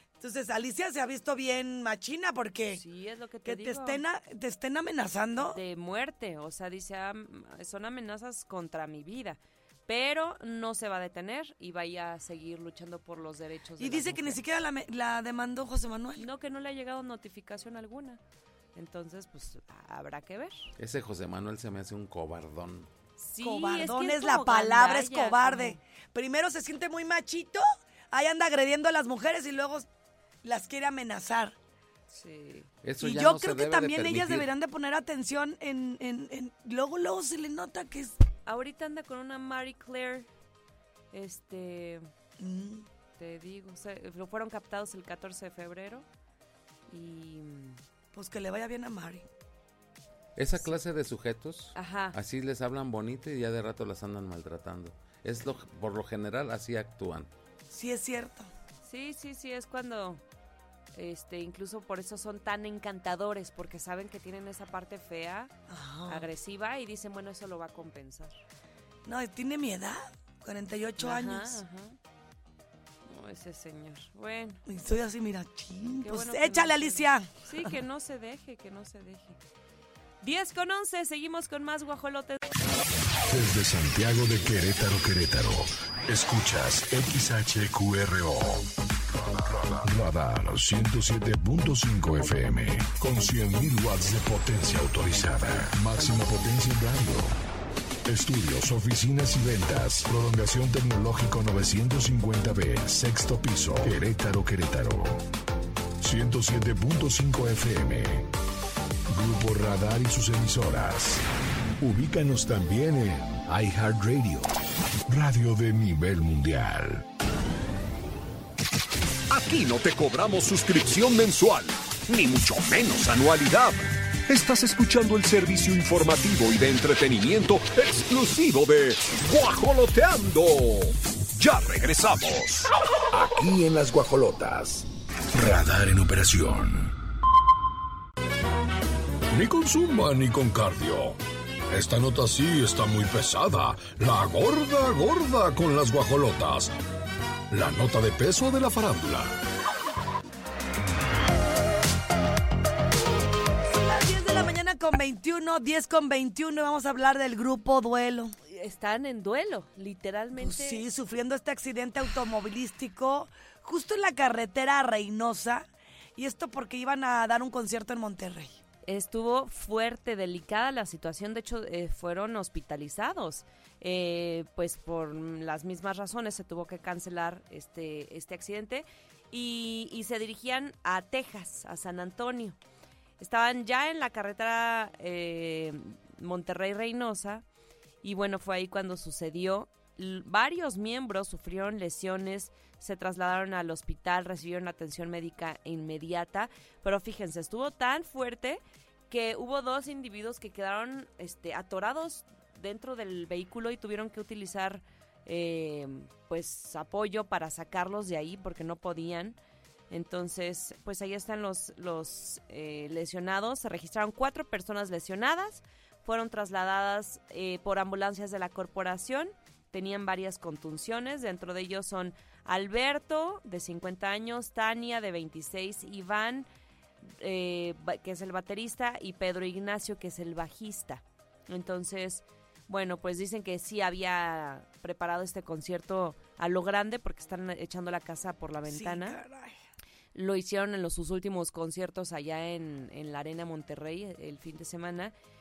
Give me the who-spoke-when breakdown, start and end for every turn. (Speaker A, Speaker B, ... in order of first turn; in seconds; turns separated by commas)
Speaker A: 0.2-2.8, Speaker B: 2.7-4.0, Speaker A: 3.5-5.6, Speaker B: 5.5-14.4, Speaker A: 13.8-16.3, Speaker B: 16.2-18.2, Speaker B: 18.8-20.6, Speaker C: 20.8-22.9, Speaker B: 23.2-25.8, Speaker A: 23.4-29.9, Speaker A: 30.4-31.6, Speaker B: 32.1-32.7, Speaker C: 32.8-34.5, Speaker A: 33.0-38.1, Speaker B: 38.5-40.3, Speaker B: 41.1-42.1, Speaker A: 42.4-42.9, Speaker B: 43.2-46.0, Speaker B: 46.9-47.8, Speaker A: 48.1-49.3, Speaker C: 50.4-57.3, Speaker B: 51.8-52.2, Speaker A: 57.7-58.5, Speaker B: 58.9-60.2, Speaker B: 61.0-65.5, Speaker A: 65.7-66.3, Speaker B: 66.1-68.4, Speaker A: 69.1-71.6, Speaker B: 71.0-72.0, Speaker B: 73.1-74.6, Speaker A: 74.7-77.3, Speaker B: 76.0-79.4, Speaker B: 80.2-82.4, Speaker D: 83.3-88.7, Speaker D: 89.4-97.3, Speaker D: 98.1-105.2, Speaker D: 106.0-108.3, Speaker D: 109.1-111.2, Speaker D: 111.8-114.5, Speaker D: 115.1-117.0, Speaker E: 119.3-132.7, Speaker D: 133.1-136.9, Speaker D: 139.3-146.7, Speaker D: 147.5-149.4, Speaker A: 153.7-158.3, Speaker B: 158.5-160.8, Speaker A: 160.4-168.6, Speaker B: 168.9-182.6, Speaker B: 183.2-187.4, Speaker B: 188.0-209.4, Speaker B: 209.9-226.5, Speaker B: 227.0-239.2, Speaker A: 238.7-239.6, Speaker B: 240.1-245.1